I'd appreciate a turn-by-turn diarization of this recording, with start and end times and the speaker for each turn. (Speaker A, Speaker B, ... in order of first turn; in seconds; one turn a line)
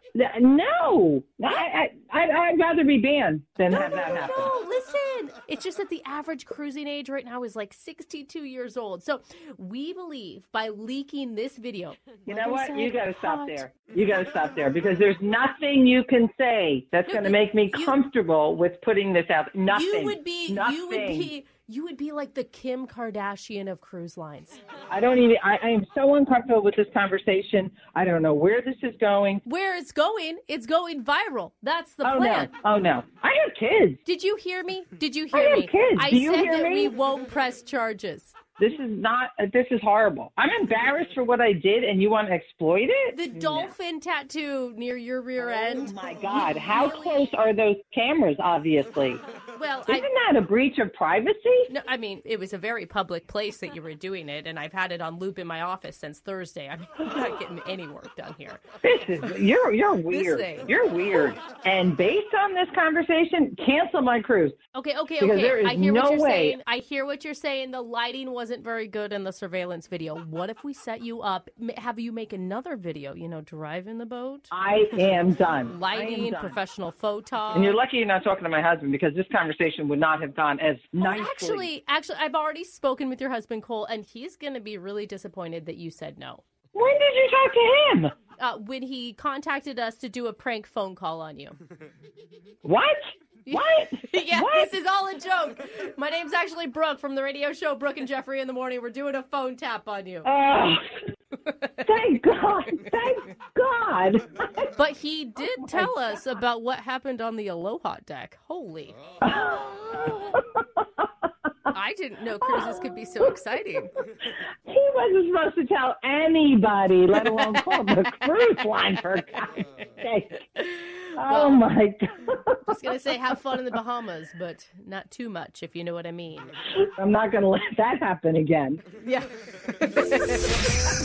Speaker A: 0.1-4.5
Speaker B: 3.7-13.7
Speaker A: 12.3-21.3
Speaker B: 17.1-18.0
Speaker B: 19.7-24.6
Speaker A: 24.9-29.4
Speaker B: 29.4-32.5
Speaker A: 32.0-34.0
Speaker B: 34.0-38.4
Speaker A: 35.3-36.9
Speaker A: 38.6-43.7
Speaker B: 43.1-47.3
Speaker A: 45.4-49.2
Speaker B: 49.5-50.1
Speaker A: 49.9-51.7
Speaker B: 51.7-58.6
Speaker A: 58.8-64.5
Speaker B: 60.1-60.7
Speaker B: 64.7-74.5
Speaker A: 65.2-66.6
Speaker A: 74.5-76.6
Speaker B: 75.7-77.8
Speaker A: 77.5-81.7
Speaker B: 81.0-86.4
Speaker A: 86.7-88.1
Speaker B: 88.4-91.6
Speaker A: 92.7-94.7
Speaker B: 93.5-100.3
Speaker A: 100.2-100.8
Speaker B: 101.5-101.7
Speaker A: 101.8-104.7
Speaker B: 104.8-109.0
Speaker A: 109.2-110.6
Speaker B: 111.7-113.9
Speaker A: 114.2-120.5
Speaker B: 117.3-117.8
Speaker B: 120.6-121.7
Speaker A: 121.2-122.8
Speaker B: 122.7-126.5
Speaker A: 126.9-128.8
Speaker B: 129.0-130.6